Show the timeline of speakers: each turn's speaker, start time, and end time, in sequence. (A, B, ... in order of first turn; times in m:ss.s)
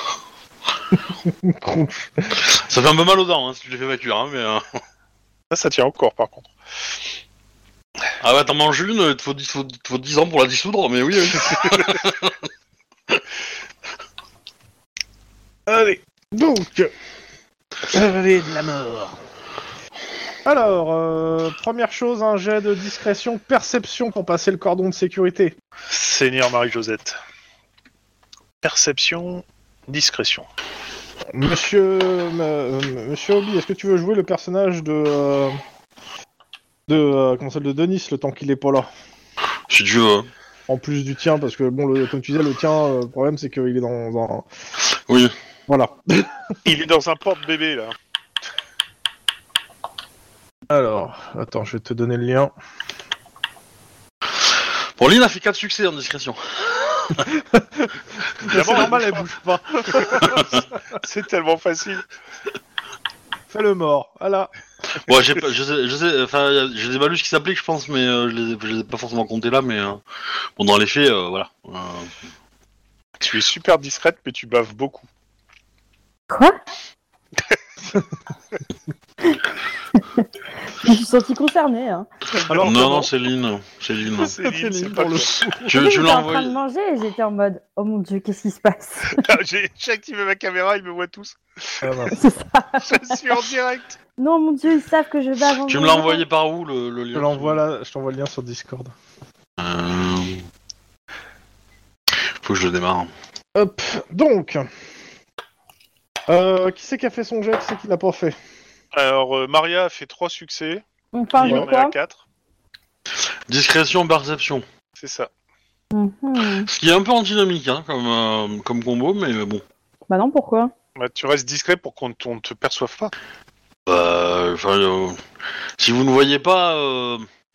0:00.9-0:02.4 A
0:02.3-0:04.8 B
0:05.5-0:06.5 C
0:08.2-0:12.4 B
0:15.7-0:16.9 A
0:17.9-0:19.2 A
0:20.4-0:25.6 A
0:25.9-0:27.2 C
0:28.6-0:30.5 C
0:31.3-0:35.6 A
0:36.9-0:38.9 A
0:39.7-0:40.3 B
0:40.7-0:44.5 A
0:44.9-0:45.3 B
0:45.7-0:46.6 A
0:46.6-0:48.0 C
0:50.7-0:52.5 A
0:54.3-0:57.3 B
0:57.3-1:00.6 A
0:58.4-0:59.3 C
1:00.0-1:02.1 C
1:00.2-1:00.6 B
1:03.5-1:04.5 A
1:05.0-1:10.0 B
1:10.6-1:12.2 B
1:13.2-1:15.1 C
1:16.3-1:16.6 D
1:20.0-1:22.1 D
1:22.4-1:23.1 A
1:22.5-1:22.8 C
1:22.6-1:24.4 B
1:24.2-1:25.4 C
1:24.3-1:25.8 A
1:25.7-1:26.6 B
1:25.7-1:29.2 D
1:29.1-1:31.9 C
1:31.8-1:32.2 A
1:32.1-1:33.1 D
1:32.9-1:34.0 C
1:34.2-1:36.2 D
1:35.7-1:37.6 B
1:37.1-1:38.9 A
1:39.6-1:40.5 B
1:42.1-1:43.1 B
1:43.6-1:44.7 A
1:46.3-1:48.4 A
1:48.9-1:50.8 C
1:51.1-1:52.0 D
1:51.4-1:52.2 C
1:53.5-1:54.6 B
1:55.0-1:55.3 C
1:55.9-1:56.7 D
1:56.6-1:59.6 B
2:00.1-2:00.7 D
2:01.0-2:03.1 C
2:03.9-2:05.2 B
2:05.8-2:07.3 B